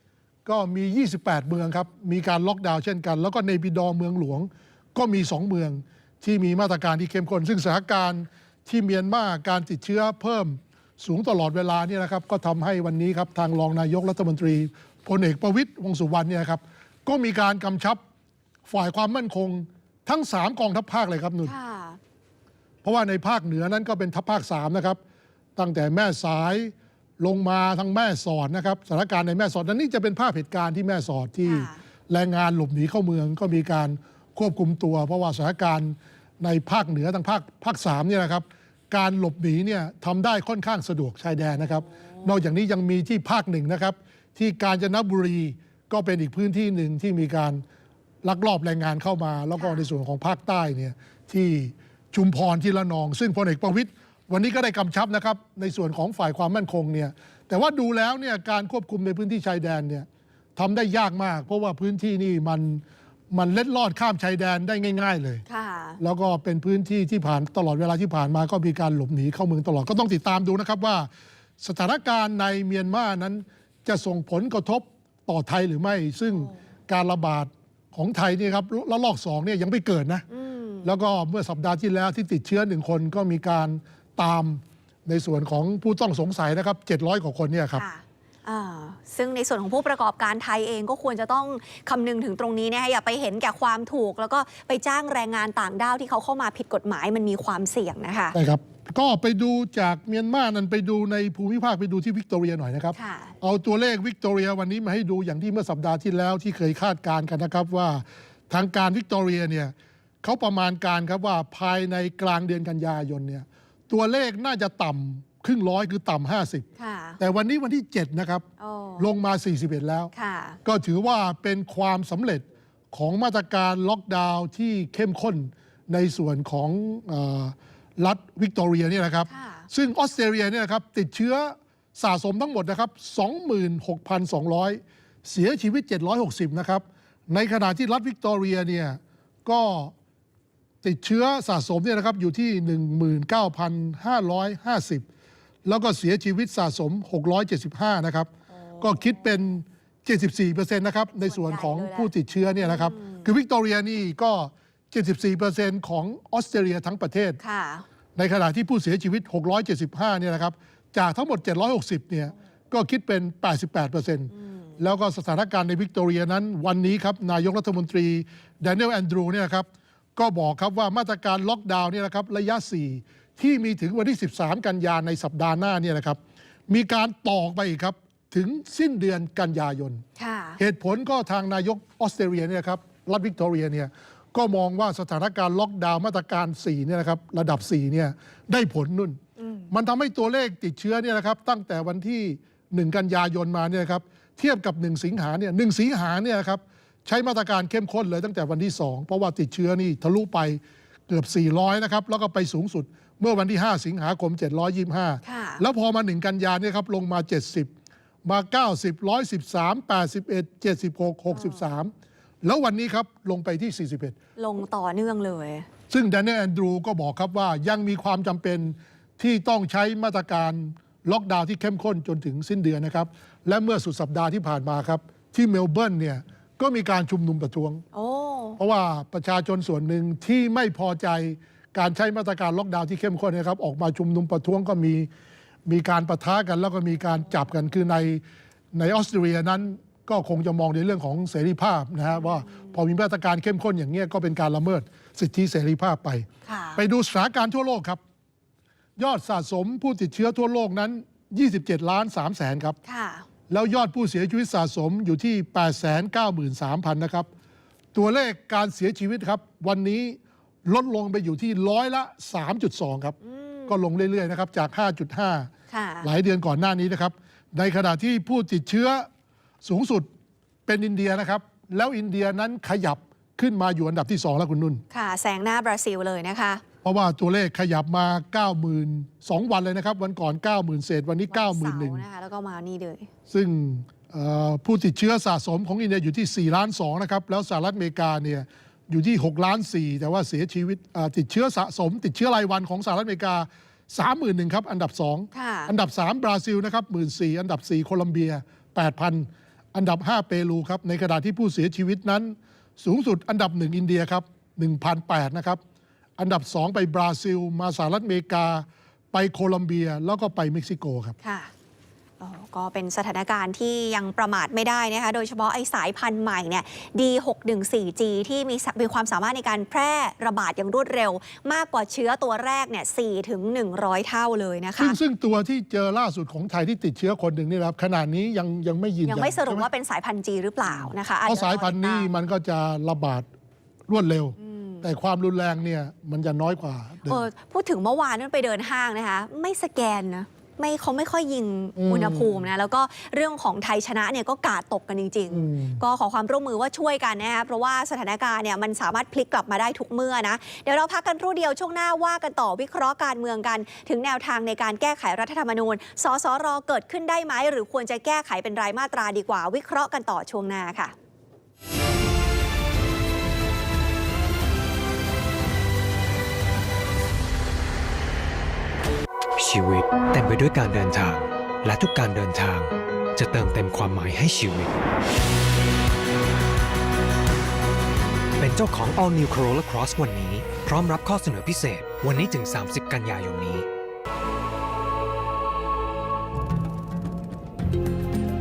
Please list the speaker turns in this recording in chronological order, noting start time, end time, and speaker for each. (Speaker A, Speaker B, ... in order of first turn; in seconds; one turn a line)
Speaker A: 0.4-18.0
Speaker A: 18.7-21.5
Speaker B: 21.4-22.0
Speaker A: 22.8-25.0
Speaker A: 25.6-47.6
Speaker B: 31.4-31.8
Speaker A: 48.2-65.4
Speaker B: 49.6-49.9
Speaker B: 65.5-66.0
Speaker A: 66.0-80.2
Speaker B: 80.3-80.9
Speaker A: 80.8-87.8
Speaker B: 87.8-98.4
Speaker A: 98.3-116.6
Speaker B: 102.9-103.3
Speaker B: 116.8-117.2
Speaker A: 117.2-118.5
Speaker B: 118.6-119.0
Speaker A: 119.0-120.1
Speaker B: 120.1-120.6
Speaker A: 120.6-139.9
Speaker B: 129.3-129.7
Speaker A: 140.8-145.1
Speaker A: 145.6-157.4
Speaker B: 148.5-149.0
Speaker B: 151.2-152.1
Speaker B: 152.6-153.2
Speaker B: 157.4-157.8
Speaker A: 158.2-180.0
Speaker B: 164.3-164.7
Speaker B: 180.2-180.6
Speaker A: 180.6-189.2
Speaker B: 189.4-189.7
Speaker A: 189.7-207.7
Speaker B: 205.2-205.6
Speaker A: 208.2-214.2
Speaker B: 211.3-211.6
Speaker B: 214.4-215.7
Speaker A: 215.9-227.8
Speaker B: 227.9-228.6
Speaker A: 228.6-235.1
Speaker A: 235.7-248.0
Speaker B: 242.4-242.7
Speaker B: 246.4-246.8
Speaker A: 249.0-252.8
Speaker B: 252.8-253.2
Speaker A: 253.5-257.3
Speaker A: 257.9-263.1
Speaker B: 263.2-263.8
Speaker A: 263.7-265.5
Speaker B: 265.7-266.1
Speaker A: 266.0-269.1
Speaker A: 269.6-270.1
Speaker A: 270.7-274.8
Speaker B: 274.9-276.6
Speaker A: 276.8-282.0
Speaker B: 281.3-283.1
Speaker A: 283.3-305.6
Speaker B: 295.3-295.7
Speaker A: 306.2-311.1
Speaker B: 311.2-311.5
Speaker B: 312.2-325.0
Speaker A: 324.8-329.7
Speaker B: 329.0-332.1
Speaker A: 330.6-333.3
Speaker A: 333.9-337.2
Speaker B: 334.4-334.8
Speaker B: 337.0-360.9
Speaker A: 341.8-342.4
Speaker A: 345.3-345.8
Speaker C: 369.4-374.7
Speaker C: 378.4-383.7